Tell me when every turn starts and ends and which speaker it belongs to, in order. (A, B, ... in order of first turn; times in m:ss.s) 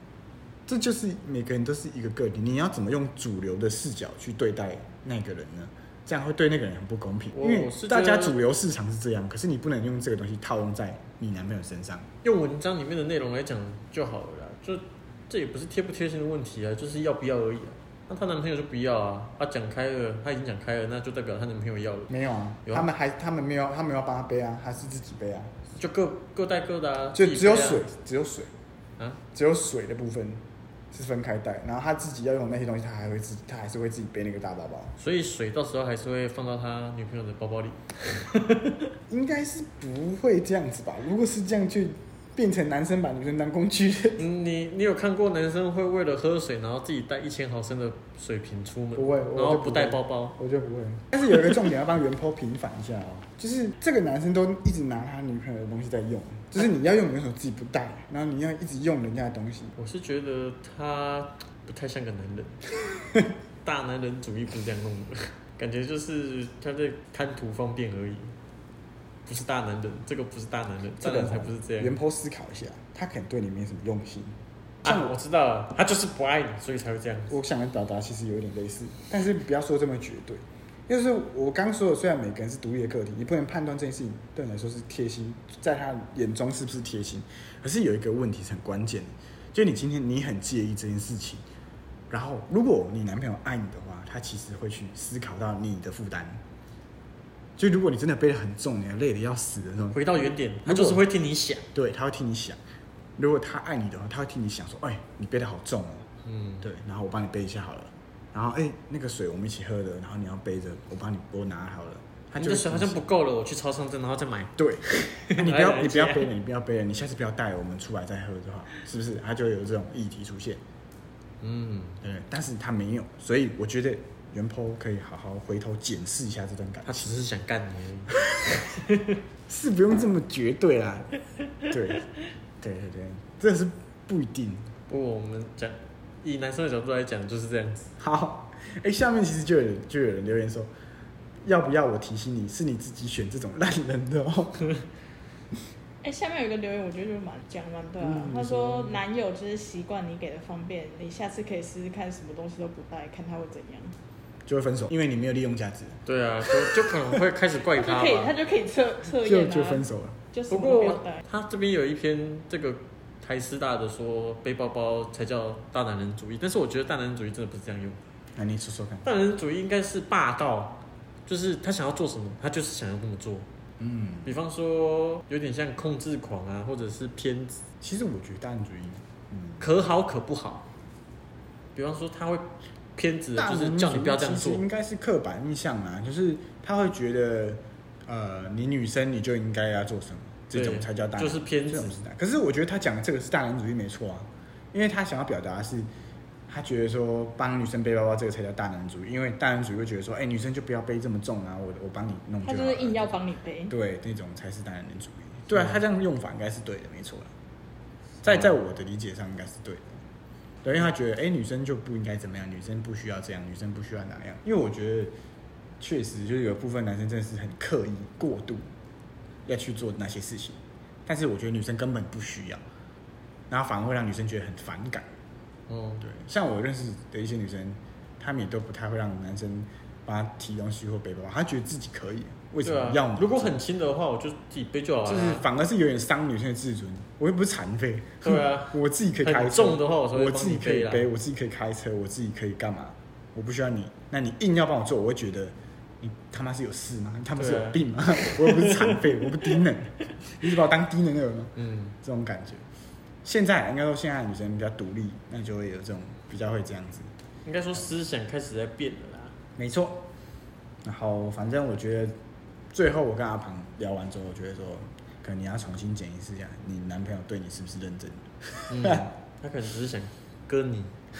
0:00.7-0:12.1 A
0:07.3-0:08.4 B
0:12.2-0:22.1 B
0:22.1-0:25.5 A
0:25.8-0:27.9 B
0:27.1-0:28.5 A
0:29.3-0:35.0 A
0:35.0-0:38.8 B
0:39.1-0:44.2 A
0:44.2-0:50.4 B
0:49.0-0:59.7 A
0:59.8-1:02.6 B
1:03.6-1:08.3 B
1:09.3-1:12.0 B
1:11.0-1:15.2 A
1:14.8-1:17.3 B
1:17.3-1:31.4 A
1:32.1-1:36.4 A
1:37.6-1:40.1 A
1:39.9-1:41.6 B
1:40.6-1:41.0 A
1:41.7-1:42.6 A
1:43.2-1:46.1 A
1:46.2-1:46.7 B
1:46.6-1:53.0 A
1:52.4-1:54.6 B
1:54.6-2:00.6 A
1:55.2-1:56.3 B
2:01.4-2:02.0 B
2:02.0-2:07.1 A
2:06.8-2:08.2 B
2:08.8-2:09.2 B
2:09.5-2:11.1 A
2:11.7-2:12.1 A
2:12.6-2:14.7 A
2:14.9-2:17.9 B
2:18.0-2:20.7 A
2:21.4-2:24.7 A
2:26.0-2:34.0 C
2:28.0-2:29.0 A
2:34.5-2:36.8 A
2:36.1-2:38.3 B
2:37.8-2:41.2 C
2:39.1-2:40.2 A
2:40.5-2:48.0 B
2:48.4-2:49.1 A
2:49.0-2:53.5 B
2:53.8-2:54.3 A
2:54.2-2:57.6 B
2:57.8-2:59.6 A
2:59.6-3:00.7 B
3:01.8-3:04.6 B
3:03.4-3:15.9 A
3:10.5-3:11.9 B
3:16.5-3:23.2 A
3:22.4-3:23.7 C
3:23.7-3:27.3 A
3:28.2-3:30.0 A
3:28.3-3:28.5 B
3:30.6-3:35.2 A
3:35.8-3:38.7 A
3:39.5-3:42.6 A
3:43.5-3:45.1 A
3:45.7-3:46.1 B
3:46.0-3:53.6 A
3:52.6-3:55.4 B
3:55.0-4:12.6 A
3:58.2-4:01.1 B
4:07.4-4:09.0 B
4:11.6-4:12.0 B
4:13.2-4:17.1 A
4:17.4-4:19.3 B
4:19.6-4:20.1 A
4:20.8-4:22.2 A
4:22.7-4:29.1 A
4:28.7-4:31.0 B